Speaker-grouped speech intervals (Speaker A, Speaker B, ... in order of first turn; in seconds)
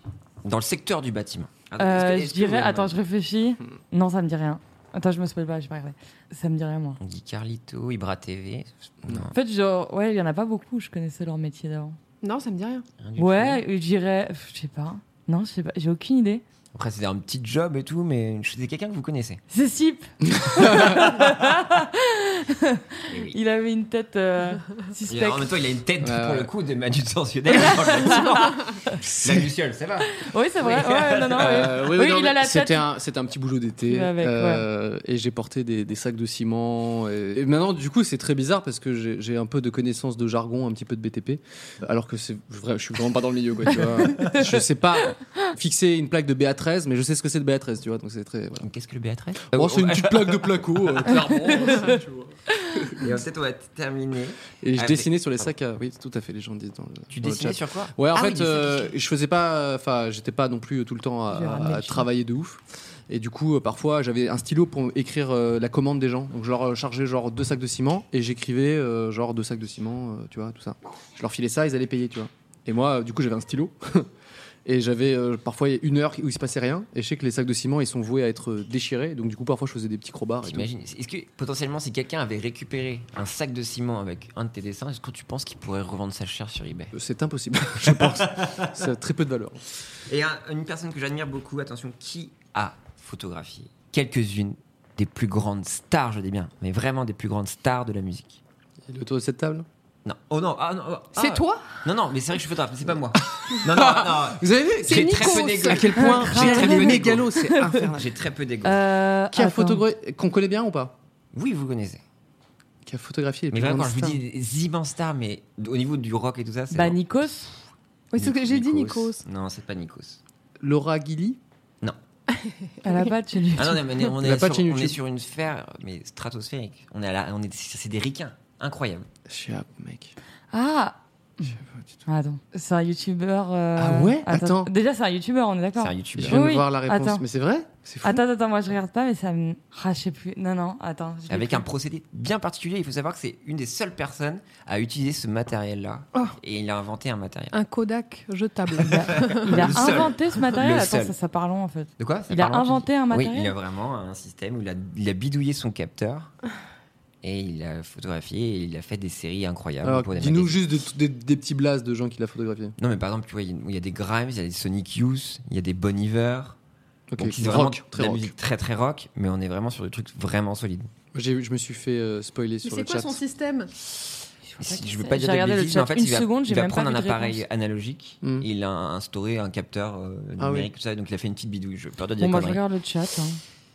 Speaker A: 0.4-3.0, 7.0-9.3, 13.0-13.6, 16.7-19.4, 23.1-23.4, 25.1-31.8, 48.6-51.3, 53.0-55.2, 57.1-58.9, 80.4-86.9, 87.9-88.7, 90.1-98.4, 100.0-108.8, 111.3-112.0, 113.5-117.0, 118.2-120.2, 123.5-129.1, 135.8-136.4, 141.3-147.5, 149.0-151.1, 152.0-156.3, 157.2-160.6, 162.8-166.6, 167.2-170.9, 174.6-182.6
Speaker B: 1.8-7.0, 9.3-12.0, 13.2-16.4, 19.5-25.5, 27.6-28.9, 30.1-32.8, 33.9-34.6, 61.3-62.1, 106.0-107.8, 108.6-109.8, 116.7-117.5, 122.8-123.8, 130.5-131.5, 132.1-137.2, 138.0-141.6, 148.8-153.5, 174.5-177.4, 182.2-183.4
Speaker C: 12.2-12.8, 101.1-101.6, 104.8-106.0, 118.1-119.2, 122.3-123.1, 147.5-149.8, 172.6-173.7
Speaker D: 20.3-21.1, 26.0-26.5, 29.0-29.5, 31.4-48.6, 49.5-52.9, 54.6-74.1, 74.6-80.7, 86.9-89.6, 98.8-99.7, 103.5-108.1, 109.3-110.9, 112.8-114.2, 120.6-121.4, 124.2-125.0, 129.3-130.1, 131.4-131.9, 133.8-134.7, 136.2-138.2, 159.8-162.7, 167.1-168.3, 171.1-173.2, 180.4-180.7